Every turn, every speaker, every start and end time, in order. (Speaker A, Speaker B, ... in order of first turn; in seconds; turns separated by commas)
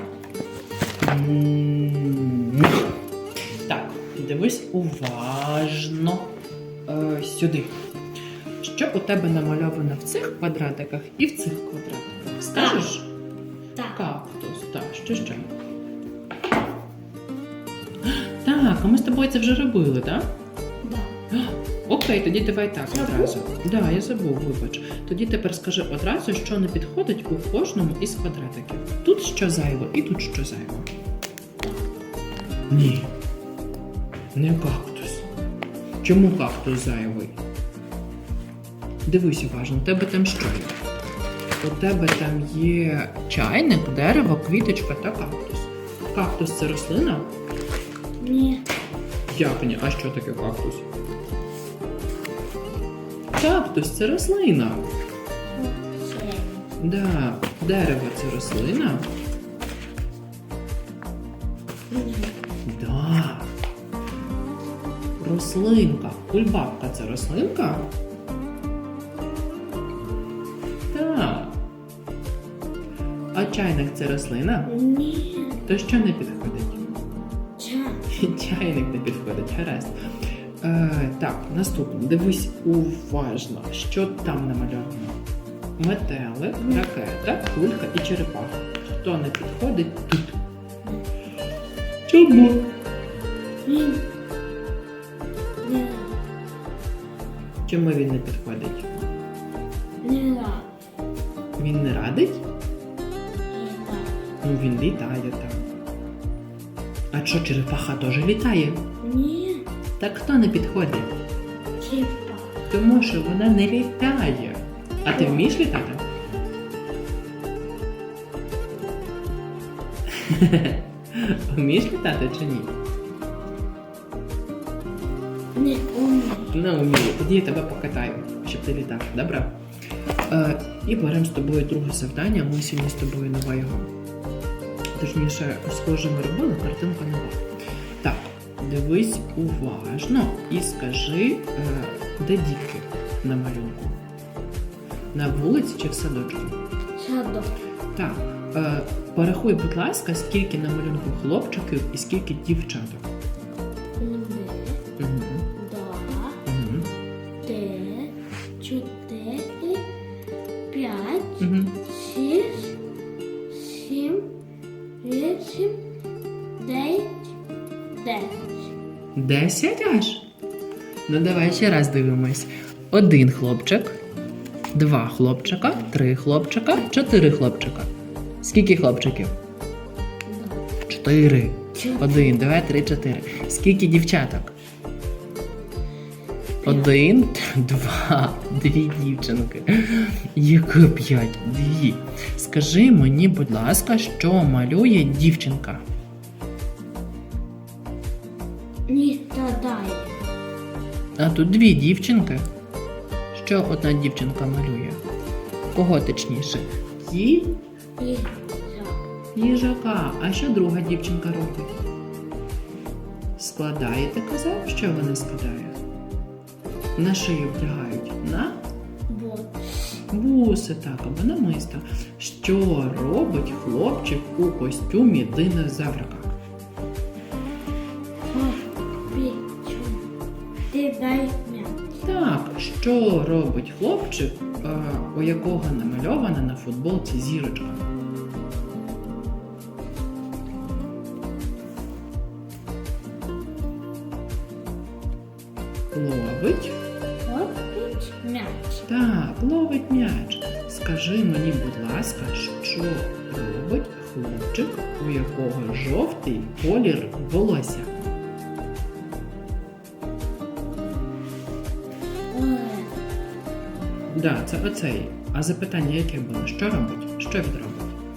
Speaker A: 1.0-2.8, Speaker A: 3.6-6.3, Speaker A: 6.9-7.8, Speaker A: 8.6-13.1, Speaker B: 12.5-12.8, Speaker A: 13.9-15.5, Speaker A: 18.0-20.3, Speaker B: 20.8-21.1, Speaker A: 21.3-30.9, Speaker B: 22.9-23.3, Speaker A: 32.7-33.1, Speaker A: 34.3-35.2, Speaker A: 36.0-37.4, Speaker A: 39.0-40.8, Speaker A: 41.6-47.3, Speaker B: 48.2-48.6, Speaker A: 49.3-50.9, Speaker A: 53.3-54.9, Speaker B: 55.5-56.7, Speaker A: 56.8-59.1, Speaker B: 61.9-62.3, Speaker A: 62.6-63.5, Speaker A: 65.2-67.9, Speaker A: 70.9-71.6, Speaker A: 73.3-74.7, Speaker B: 74.7-75.6, Speaker A: 75.7-76.8, Speaker B: 77.6-78.0, Speaker A: 78.1-79.9, Speaker A: 80.6-85.2, Speaker A: 85.8-90.4, Speaker B: 86.6-86.8, Speaker A: 92.1-92.7, Speaker B: 93.7-94.0, Speaker B: 95.6-96.2, Speaker A: 97.7-99.0, Speaker B: 100.0-100.7, Speaker A: 101.6-102.4, Speaker B: 103.5-104.2, Speaker A: 104.4-105.7, Speaker A: 107.1-108.8, Speaker B: 109.0-109.7, Speaker A: 110.0-111.1, Speaker B: 111.8-112.6, Speaker A: 112.7-116.0, Speaker B: 115.1-115.5, Speaker A: 120.1-122.7, Speaker B: 125.5-126.5, Speaker A: 126.5-129.6, Speaker A: 130.3-133.9, Speaker A: 134.9-137.4, Speaker A: 138.0-144.0, Speaker A: 145.1-146.6, Speaker B: 146.9-147.6, Speaker A: 147.9-153.1, Speaker B: 154.0-154.8, Speaker A: 155.0-155.5, Speaker B: 155.5-156.4, Speaker A: 156.4-156.9, Speaker B: 157.4-159.9, Speaker B: 160.7-162.8, Speaker A: 161.4-161.8, Speaker B: 163.5-164.3, Speaker B: 165.0-165.8, Speaker B: 166.6-167.3, Speaker B: 167.9-168.7, Speaker A: 169.2-170.3, Speaker A: 171.1-174.0, Speaker A: 174.7-177.9, Speaker A: 178.4-179.3, Speaker B: 180.2-180.7, Speaker A: 180.9-184.5, Speaker B: 181.7-182.4, Speaker A: 186.6-195.8, Speaker B: 186.6-186.9, Speaker B: 198.9-200.2, Speaker A: 201.2-202.5, Speaker A: 203.3-205.0, Speaker A: 205.7-207.6, Speaker B: 208.0-209.0, Speaker A: 209.3-211.8, Speaker A: 213.4-215.8, Speaker A: 216.9-218.6, Speaker B: 219.1-220.0, Speaker A: 220.1-226.3, Speaker B: 228.3-230.1, Speaker B: 230.7-231.9, Speaker A: 232.0-237.8, Speaker A: 245.9-246.8, Speaker B: 247.2-248.8, Speaker A: 248.8-258.1, Speaker B: 262.3-262.9, Speaker A: 264.1-267.9